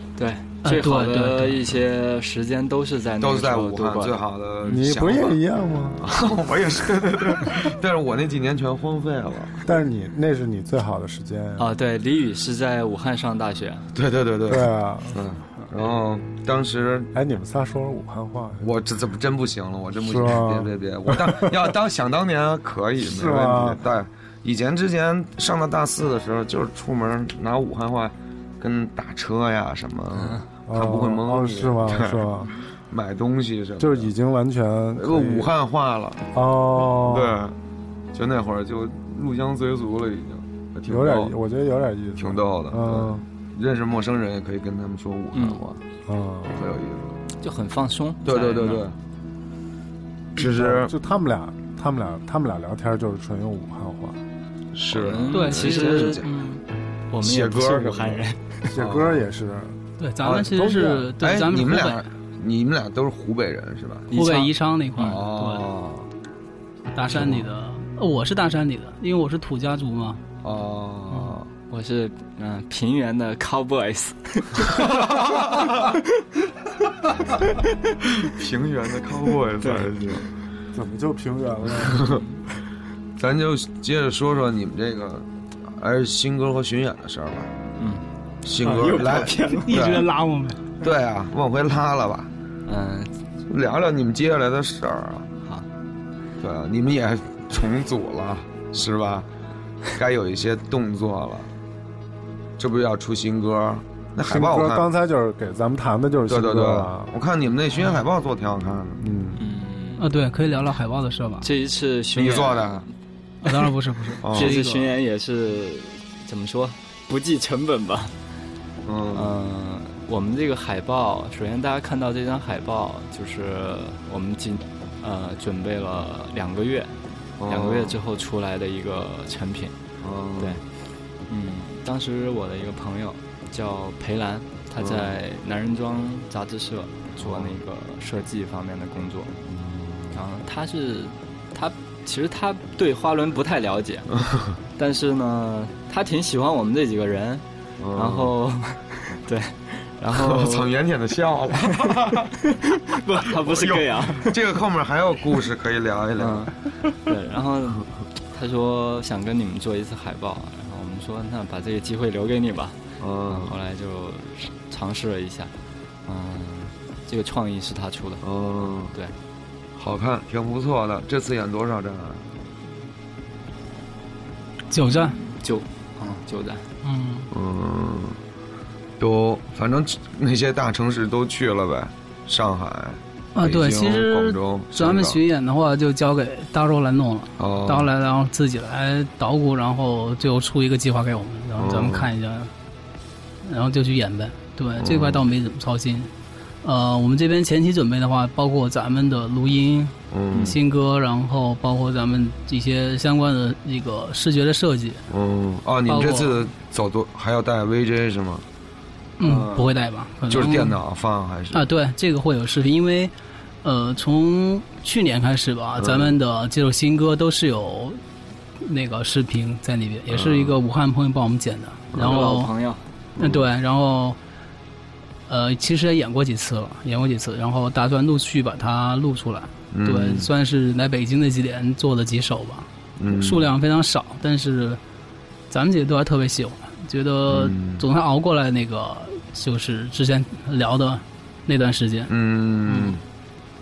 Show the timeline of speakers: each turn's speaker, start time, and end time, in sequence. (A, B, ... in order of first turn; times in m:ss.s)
0:00.2-0:04.9 A
0:00.6-0:01.6 B
0:03.2-0:05.4 C
0:04.7-0:06.0 D
0:06.0-0:09.7 C
0:09.6-0:11.7 D
0:11.6-0:13.9 A
0:13.9-0:17.1 C
0:14.5-0:15.2 D
0:17.1-0:18.6 D
0:18.6-0:32.2 C
0:20.0-0:21.7 D
0:23.0-0:23.8 D
0:30.1-0:30.4 A
0:30.7-0:32.5 D
0:32.9-0:34.1 C
0:33.8-0:35.5 D
0:35.0-0:36.2 C
0:36.3-0:37.4 D
0:36.9-0:37.6 C
0:38.1-0:41.3 C
0:40.9-0:43.2 D
0:42.2-0:45.8 C
0:45.3-0:45.6 A
0:46.1-0:46.6 D
0:46.5-0:47.1 C
0:47.4-0:48.8 A
0:48.2-0:49.0 C
0:50.3-0:50.9 C
0:50.4-0:54.2 D
0:54.7-0:56.3 C
0:54.9-0:56.2 A
0:55.3-0:56.6 B
0:57.1-0:58.6 A
0:57.2-0:58.2 C
0:58.7-0:59.8 D
0:58.8-0:59.2 C
1:00.0-1:02.0 B
1:00.2-1:04.1 C
1:00.5-1:01.0 D
1:04.1-1:05.2 A
1:04.1-1:05.7 B
1:05.0-1:06.1 C
1:06.9-1:10.2 B
1:10.4-1:11.5 C
1:11.7-1:16.0 A
1:14.7-1:16.0 C
1:18.2-1:20.3 C
1:19.6-1:20.1 A
1:20.7-1:22.1 D
1:21.8-1:22.2 C
1:22.0-1:22.3 A
1:23.2-1:27.5 C
1:27.8-1:28.0 A
1:28.4-1:30.1 C
1:28.6-1:30.0 A
1:29.5-1:30.6 B
1:30.8-1:32.3 C
1:32.6-1:33.1 A
1:33.5-1:35.3 C
1:36.4-1:39.3 C
1:39.9-1:41.5 C
1:42.6-1:44.8 C
1:44.2-1:47.1 D
1:46.3-1:49.0 C
1:49.0-1:49.4 D
1:49.4-1:50.1 A
1:50.0-1:51.5 B
1:51.4-1:52.9 A
1:52.1-1:52.9 C
1:53.4-1:54.9 B
1:54.2-1:54.5 C
1:54.3-1:58.2 A
1:58.8-1:59.3 C
1:59.1-2:07.0 A
2:07.4-2:08.0 C
2:07.5-2:09.7 A
2:10.0-2:10.6 C
2:11.3-2:19.4 A
2:14.8-2:15.1 C
2:17.2-2:17.5 C
2:19.4-2:20.2 C
2:20.1-2:24.1 A
2:24.2-2:24.5 C
2:24.8-2:30.7 A
2:27.8-2:28.3 C
2:30.1-2:32.3 C
2:31.7-2:34.4 A
2:33.2-2:36.5 C
2:36.2-2:45.5 A
2:43.0-2:43.6 C
2:46.0-2:48.2 A
2:48.2-2:48.9 C
2:49.8-2:52.2 C
2:54.7-2:55.2 B
2:54.9-2:56.7 A
2:56.8-2:57.3 B
2:57.3-2:58.2 C
2:59.0-3:05.2 C
3:03.3-3:12.5 B
3:07.4-3:07.9 C
3:11.6-3:12.1 C
3:13.4-3:16.1 B
3:14.8-3:15.2 C
3:16.6-3:25.0 B
3:20.1-3:20.6 C
3:25.1-3:28.4 C
3:25.9-3:26.4 B
3:29.2-3:30.8 B
3:30.3-3:31.7 C
3:31.5-3:33.1 B
3:33.6-3:38.0 B
3:35.8-3:36.2 C
3:38.6-3:42.5 B
3:40.1-3:40.6 C
3:41.9-3:42.3 C
3:42.0-3:42.8 A
3:43.2-3:43.5 C
3:43.2-3:44.2 B
3:45.3-3:54.8 B
3:49.7-3:50.3 C
3:53.0-3:53.5 C
3:55.5-4:02.1 B
3:57.3-3:57.8 C
4:02.1-4:03.0 C
4:02.7-4:02.9 B